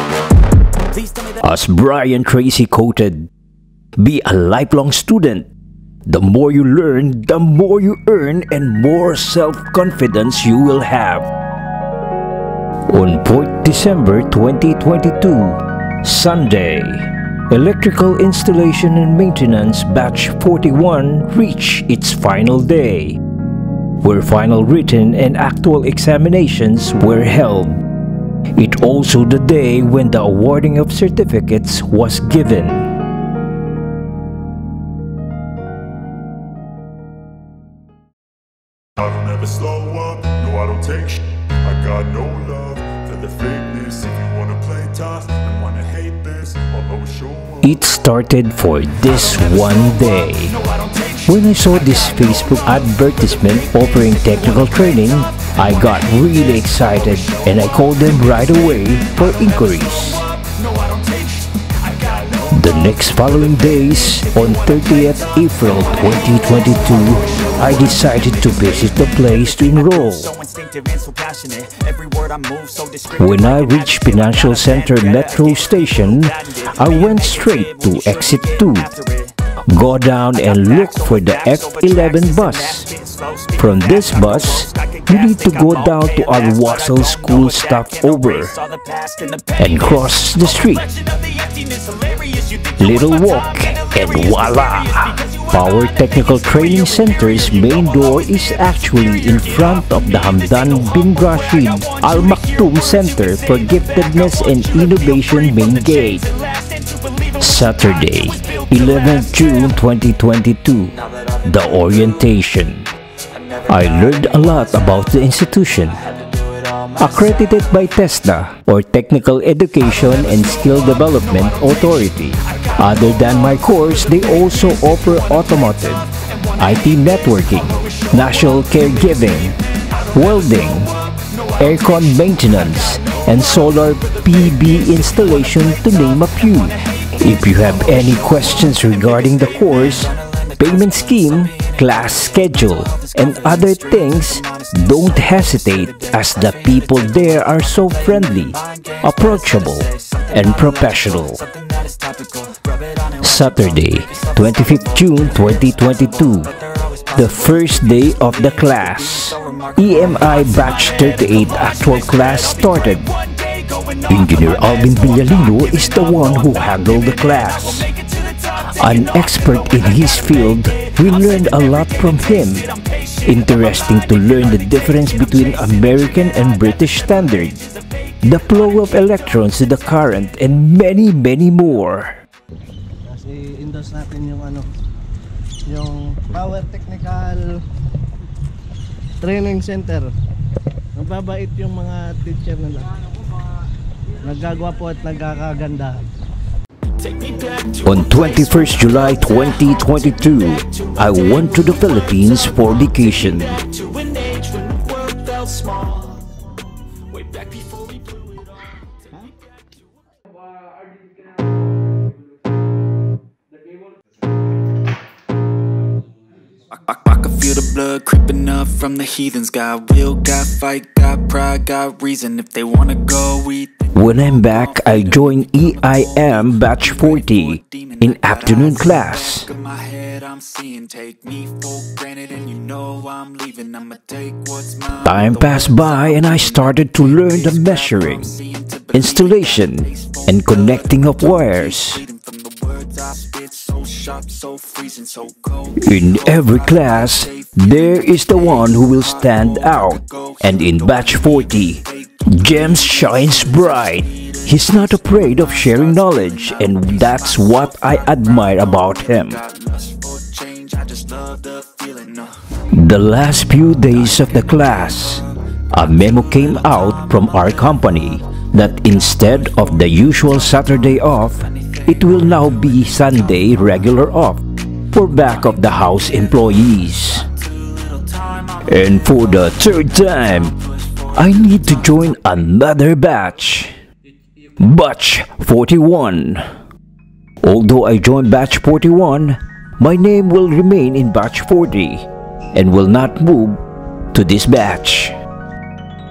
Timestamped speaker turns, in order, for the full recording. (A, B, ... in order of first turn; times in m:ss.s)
0:01.4-0:03.3 A
0:04.0-0:05.5 A
0:06.1-0:11.3 A
0:12.9-0:23.2 A
0:24.0-0:27.8 A
0:28.6-0:32.9 A
0:39.0-0:47.6 B
0:47.6-0:50.6 A
0:51.3-1:00.3 A
1:02.5-1:10.4 A
1:11.1-1:13.0 C
1:13.2-1:19.0 A
1:19.7-1:22.9 A
1:23.6-1:28.6 A
1:29.6-1:30.9 A
1:31.9-1:32.3 C
1:32.8-1:46.4 A
1:47.4-1:52.9 A
1:53.7-1:56.0 A
1:57.0-2:09.6 A
2:10.1-2:11.0 A
2:11.6-2:31.4 A
2:33.2-2:36.5 A
2:37.1-2:43.1 A
2:44.1-2:47.9 A
2:48.6-2:52.7 A
2:53.2-2:57.6 A
2:58.2-3:02.2 A
3:03.0-3:04.7 D
3:05.7-3:07.5 D
3:09.2-3:10.1 D
3:11.0-3:13.0 D
3:14.2-3:16.0 D
3:17.8-3:23.6 A
3:24.1-3:26.0 C
3:37.7-3:43.6 C
3:43.9-3:49.5 A
3:49.7-3:54.8 C
3:55.0-3:58.4 A
3:58.9-4:02.0 A
4:02.5-4:05.5 C
4:05.8-4:19.4 A
4:19.7-4:22.3 C
4:22.7-4:37.3 A
4:38.6-4:40.6 A
4:41.2-4:43.7 A
4:44.6-4:46.4 A
4:47.4-4:53.6 A
4:54.1-4:55.2 A